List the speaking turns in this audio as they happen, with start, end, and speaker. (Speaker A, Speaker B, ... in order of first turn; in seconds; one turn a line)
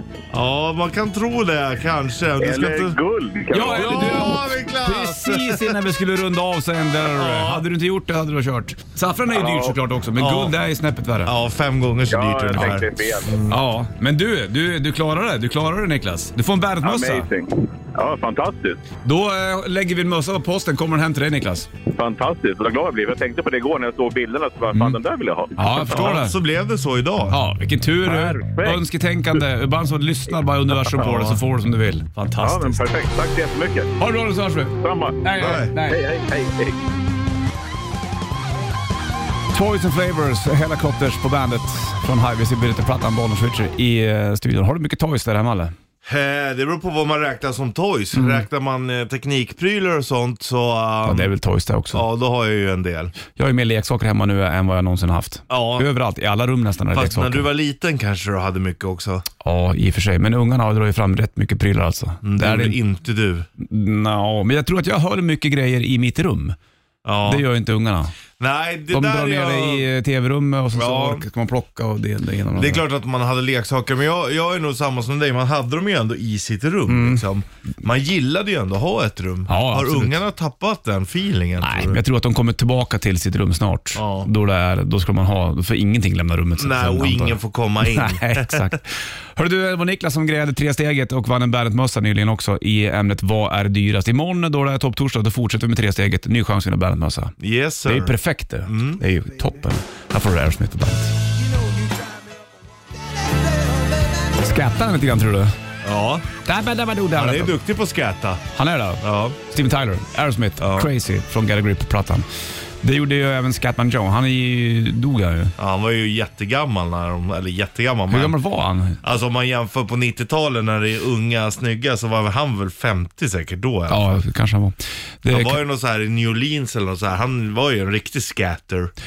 Speaker A: 0.3-3.0
Speaker B: 2.4-4.2
Speaker C: 3.5-11.3
Speaker A: 3.5-5.8
Speaker A: 7.0-7.7
Speaker B: 9.3-9.8
Speaker A: 10.2-10.5
Speaker A: 11.2-13.6
Speaker B: 12.1-13.4
Speaker C: 13.5-17.3
Speaker B: 16.8-18.8
Speaker C: 19.0-21.7
Speaker B: 21.9-25.9
Speaker C: 24.7-25.0
Speaker C: 25.6-26.4
Speaker A: 25.9-27.4
Speaker C: 27.3-32.9
Speaker B: 28.0-28.8
Speaker B: 32.4-33.9
Speaker C: 34.0-36.0
Speaker B: 34.8-36.8
Speaker A: 35.4-35.7
Speaker C: 39.5-45.7
Speaker A: 46.0-51.3
Speaker C: 48.1-48.4
Speaker C: 51.0-52.0
Speaker A: 51.9-53.1
Speaker C: 53.3-57.5
Speaker A: 55.5-55.9
Speaker A: 56.9-59.2
Speaker C: 59.4-62.8
Speaker A: 62.2-63.5
Speaker C: 63.6-66.6
Speaker A: 67.0-67.5
Speaker C: 67.2-68.1
Speaker A: 68.4-69.9
Speaker C: 68.9-72.8
Speaker A: 70.7-71.2
Speaker A: 72.5-82.0
Speaker C: 76.9-77.2
Speaker C: 79.5-80.2
Speaker C: 81.6-101.2
Speaker A: 83.9-84.3
Speaker A: 86.6-88.7
Speaker A: 97.4-98.1
Speaker A: 98.7-99.0
Speaker C: 104.3-105.5
Speaker A: 105.8-106.3
Speaker C: 106.4-107.6
Speaker A: 107.1-108.4
Speaker C: 108.5-112.3
Speaker A: 109.0-109.4
Speaker A: 110.6-110.9
Speaker C: 112.8-115.5
Speaker A: 115.6-118.4
Speaker C: 118.1-119.0
Speaker A: 119.0-124.2
Speaker C: 123.9-125.6
Speaker A: 125.3-128.9